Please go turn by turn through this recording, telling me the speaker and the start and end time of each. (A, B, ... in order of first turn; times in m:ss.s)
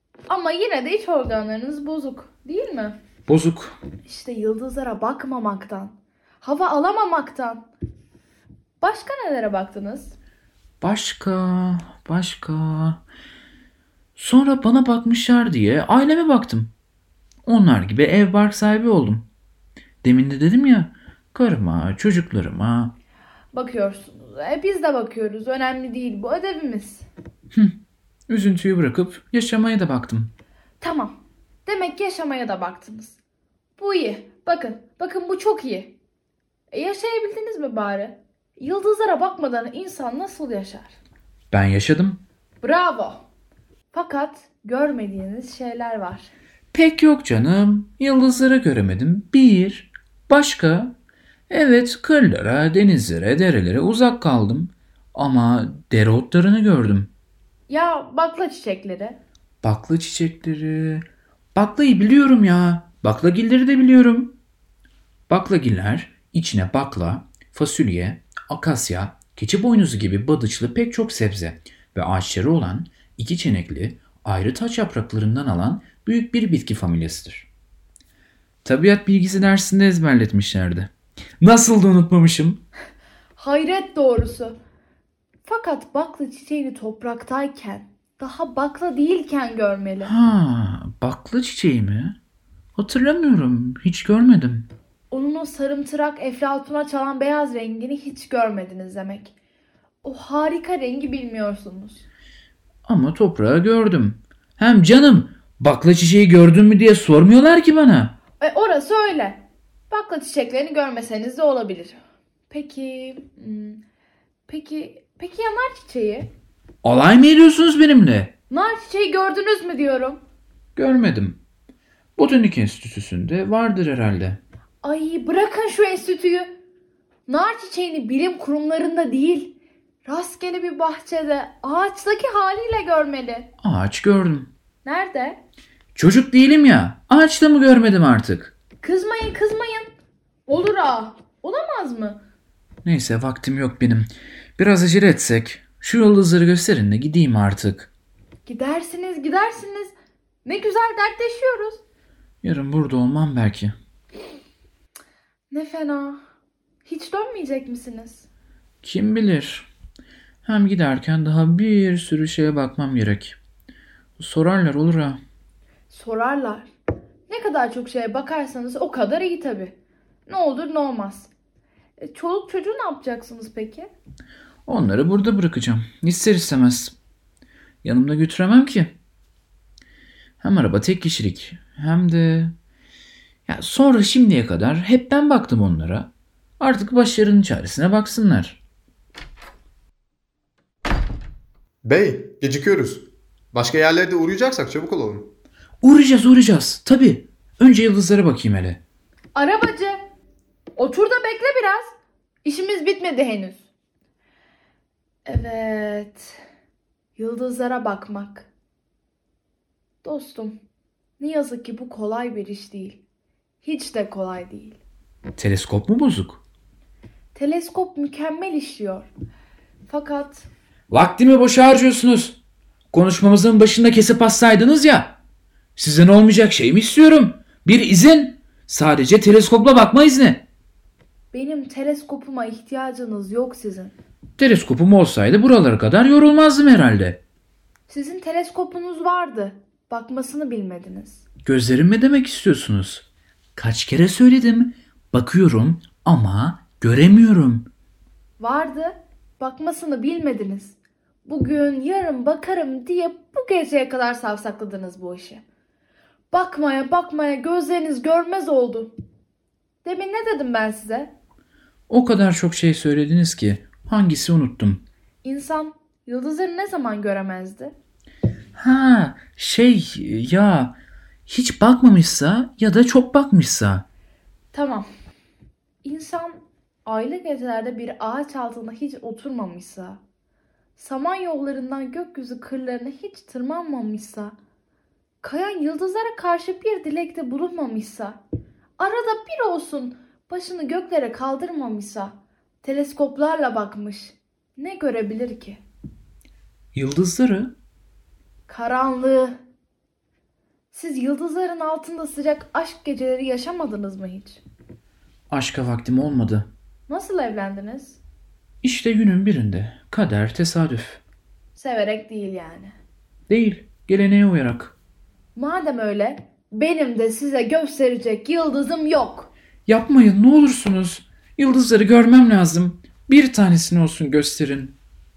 0:00.3-0:03.0 A
0:03.3-0:03.8 B
0:04.0-0:07.7 A
0:08.8-0:10.2 A
0:10.8-0:13.0 B
0:14.2-0:16.7 B
0:17.4-0:19.3 B
0:20.0-0:23.0 B
0:23.5-0:27.1 A
0:28.3-0:30.3 B
0:30.8-0:33.2 A
0:33.8-0:36.0 A
0:36.7-0:41.0 A
0:41.5-0:42.2 B
0:42.6-0:43.2 A
0:43.9-0:46.3 A
0:46.7-0:50.9 B
0:51.5-0:57.1 B
0:57.7-0:59.2 A
0:59.6-1:04.4 B
1:05.3-1:17.5 B
1:18.6-1:22.6 B
1:23.4-1:24.6 A
1:25.4-1:30.1 A
1:30.0-1:32.2 B
1:32.8-1:34.7 B
1:35.1-1:39.3 A
1:40.0-1:42.1 A
1:42.8-1:48.2 B
1:48.4-1:52.0 A
1:52.5-1:53.8 A
1:54.5-1:56.3 A
1:56.8-1:58.3 B
1:58.5-2:00.2 A
2:00.8-2:01.4 B
2:02.2-2:04.4 B
2:04.8-2:06.6 A
2:07.3-2:13.5 A
2:13.6-2:14.5 B
2:14.8-2:15.4 A
2:16.0-2:18.5 B
2:18.8-2:19.9 A
2:20.5-2:22.2 A
2:22.8-2:27.9 B
2:28.5-2:29.9 A
2:30.4-2:31.8 A
2:32.4-2:33.8 B
2:35.5-2:36.2 A
2:36.8-2:38.3 A
2:38.8-2:39.7 B
2:40.4-2:43.4 B
2:44.2-2:45.2 B
2:45.9-2:46.7 A
2:47.3-2:51.3 A
2:52.0-2:53.9 A
2:54.7-2:57.0 B
2:57.8-2:59.0 B
3:00.4-3:02.6 B
3:03.5-3:08.6 B
3:11.8-3:15.4 C
3:15.8-3:18.8 B
3:19.4-3:20.0 A
3:20.8-3:21.9 A
3:22.4-3:23.7 A
3:25.3-3:26.4 A
3:27.2-3:28.5 A
3:30.0-3:30.6 A
3:31.2-3:33.0 A
3:33.6-3:34.8 A
3:35.4-3:36.4 B
3:37.4-3:39.1 A
3:39.9-3:40.5 A
3:40.9-3:42.4 B
3:42.9-3:45.2 B
3:45.8-3:50.5 B
3:51.3-3:54.0 A
3:54.4-3:57.2 B
3:57.9-4:01.2 A
4:01.4-4:07.7 B
4:08.4-4:15.4 A
4:16.3-4:18.9 A
4:19.8-4:21.1 A
4:21.9-4:24.8 B
4:25.2-4:27.8 A
4:28.6-4:30.8 B
4:31.3-4:33.9 B
4:34.5-4:34.9 A
4:35.8-4:40.0 A
4:40.8-4:44.4 A
4:45.2-4:48.2 A
4:48.8-4:55.6 A
4:56.7-4:57.5 B
4:58.5-4:59.4 A
5:00.7-5:04.4 A
5:05.3-5:06.5 B
5:06.9-5:08.0 A
5:08.6-5:11.0 B
5:11.6-5:12.7 A
5:13.3-5:14.8 B
5:15.4-5:19.3 A
5:19.7-5:24.8 B